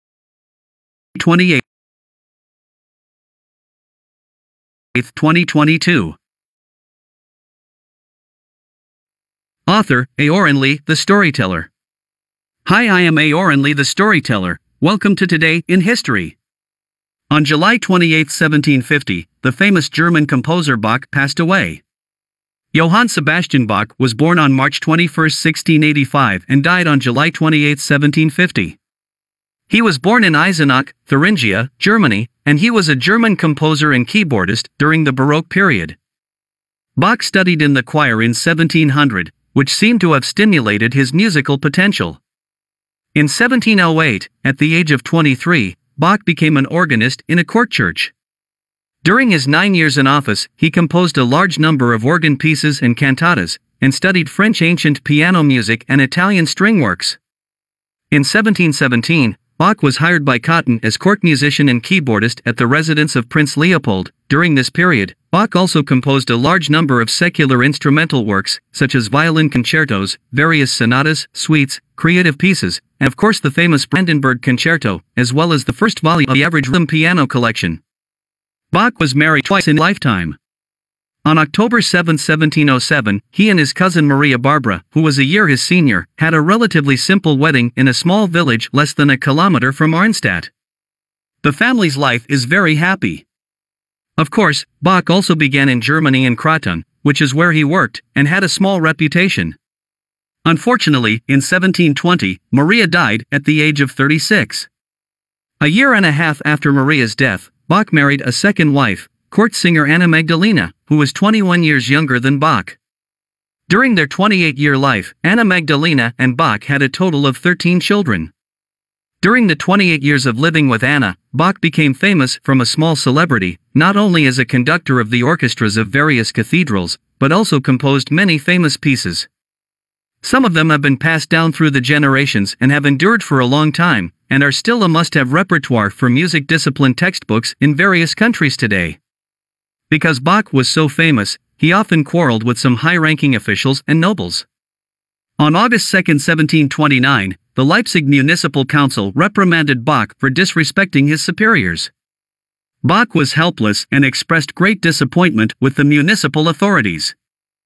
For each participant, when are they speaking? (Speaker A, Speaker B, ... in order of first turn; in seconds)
Speaker A: 1.1-1.6, 4.9-6.2, 9.7-11.7, 12.6-16.4, 17.3-21.8, 22.7-28.8, 29.7-36.0, 37.0-42.2, 43.1-48.1, 49.0-57.2, 58.1-77.8, 78.7-80.4, 81.2-90.5, 91.4-93.2, 94.2-99.5, 100.4-104.7, 105.6-112.8, 113.7-118.3, 119.2-129.3, 130.2-139.0, 139.9-144.5, 145.4-151.9, 152.8-157.1